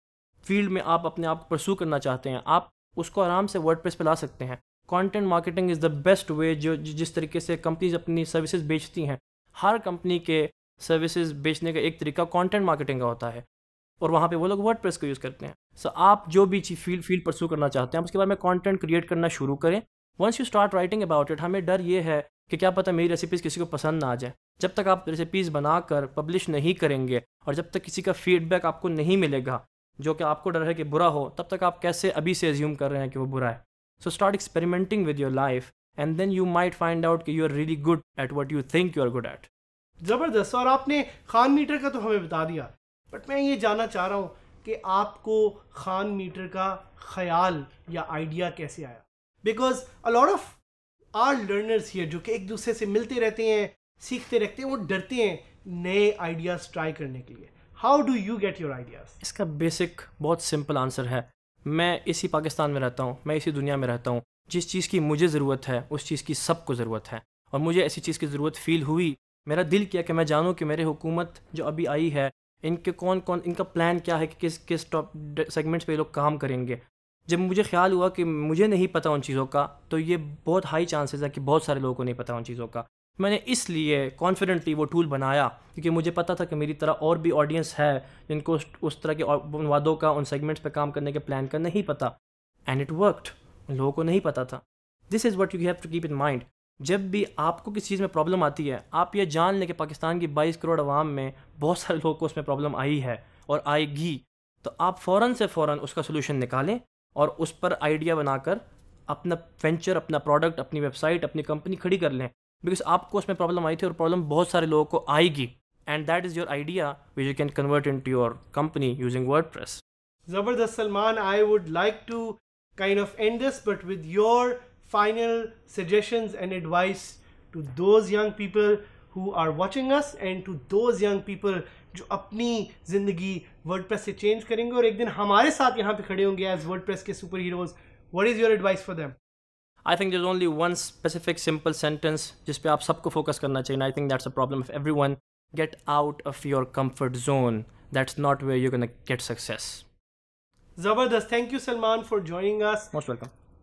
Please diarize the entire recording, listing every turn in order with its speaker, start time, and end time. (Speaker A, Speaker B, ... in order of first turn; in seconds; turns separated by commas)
Speaker A: 0.4-13.4, Speaker A: 14.0-39.5, Speaker B: 40.0-50.6, Speaker B: 51.1-59.2, Speaker A: 59.2-92.1, Speaker A: 92.7-119.8, Speaker B: 120.3-139.2, Speaker A: 139.8-149.8, Speaker B: 150.8-152.9, Speaker A: 152.9-153.3